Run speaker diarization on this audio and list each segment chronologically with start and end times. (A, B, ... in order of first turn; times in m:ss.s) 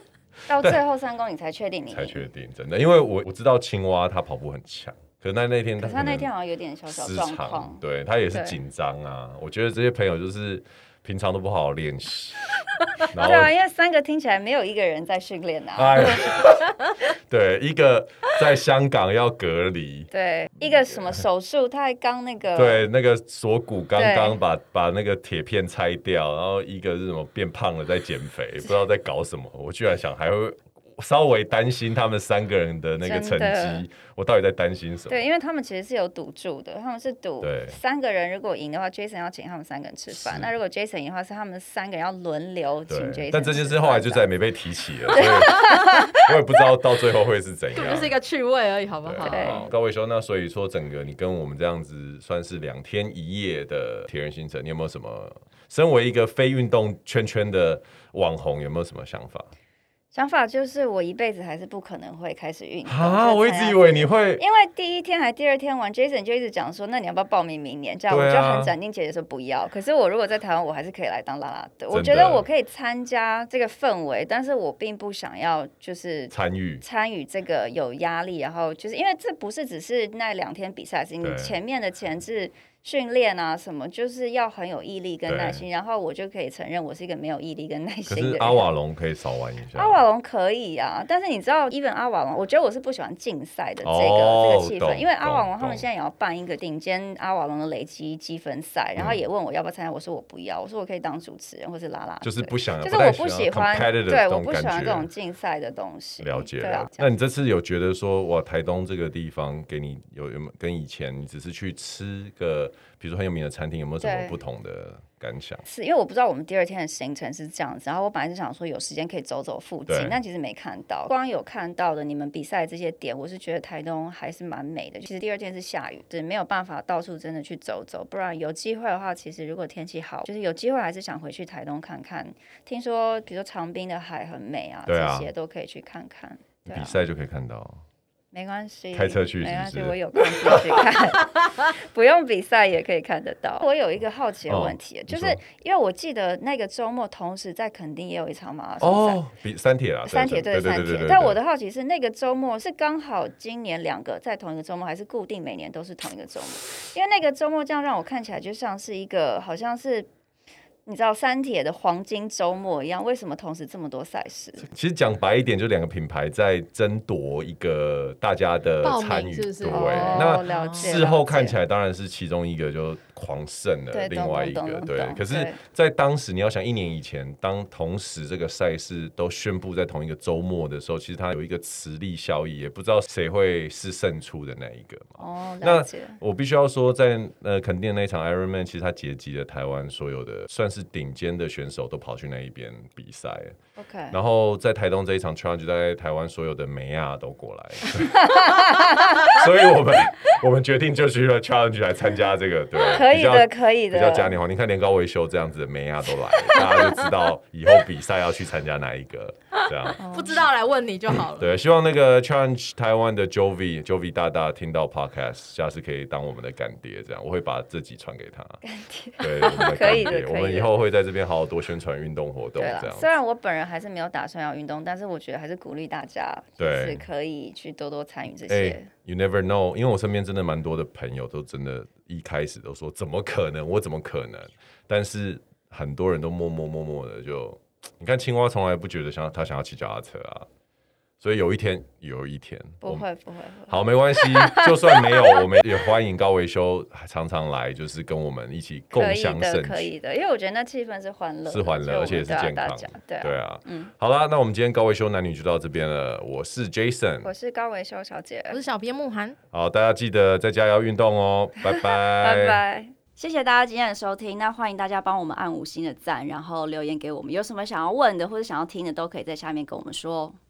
0:00.5-0:02.3 A
0:00.5-0:00.8 B
0:01.9-0:06.3 B
0:05.8-0:08.6 A
0:06.9-0:13.5 B
0:13.1-0:16.4 A
0:15.7-0:21.2 B
0:20.1-0:22.8 A
0:22.5-0:35.2 B
0:23.9-0:24.4 A
0:33.0-0:33.8 A
0:35.1-0:44.3 A
0:37.4-0:37.8 B
0:40.1-0:40.5 B
0:42.9-0:48.2 B
0:45.1-0:46.3 A
0:45.1-0:46.0 C
0:47.7-0:49.6 C
0:49.0-0:59.5 B
0:49.2-0:49.6 A
1:00.1-1:28.7 A
1:02.8-1:04.4 B
1:08.1-1:08.7 B
1:11.9-1:12.4 B
1:16.3-1:16.8 B
1:21.2-1:21.6 B
1:25.3-1:25.6 B
1:28.1-1:30.0 B
1:29.7-1:47.2 A
1:33.8-1:35.8 B
1:39.0-1:39.2 B
1:42.2-1:45.1 B
1:46.2-1:55.6 B
1:54.0-1:54.4 A
1:55.6-2:17.0 A
1:59.9-2:00.2 B
2:14.9-2:15.3 B
2:16.7-2:17.8 B
2:18.3-2:29.2 A
2:18.9-2:20.9 B
2:24.5-2:25.4 B
2:28.8-2:31.4 B
2:30.0-2:40.1 A
2:40.8-2:44.7 A
2:44.6-3:13.6 B
2:48.8-2:51.0 C
2:49.7-2:51.6 A
2:53.9-2:55.6 A
3:05.2-3:06.2 A
3:13.8-3:14.2 A
3:14.1-3:30.0 B
3:18.0-3:19.4 A
3:22.9-3:24.4 A
3:26.5-3:27.1 C
3:29.6-3:31.5 C
3:30.0-3:30.4 A
3:31.3-3:38.6 B
3:38.6-3:40.7 A
3:39.2-3:43.1 B
3:42.6-3:48.9 A
3:46.6-3:47.0 B
3:48.5-4:00.5 B
4:01.2-4:03.0 B
4:02.8-4:05.5 A
4:03.7-4:09.9 B
4:08.9-4:13.9 A
4:11.4-4:17.3 B
4:17.2-4:18.6 A
4:18.5-4:19.4 C
4:19.5-4:22.6 B
4:21.6-4:30.4 A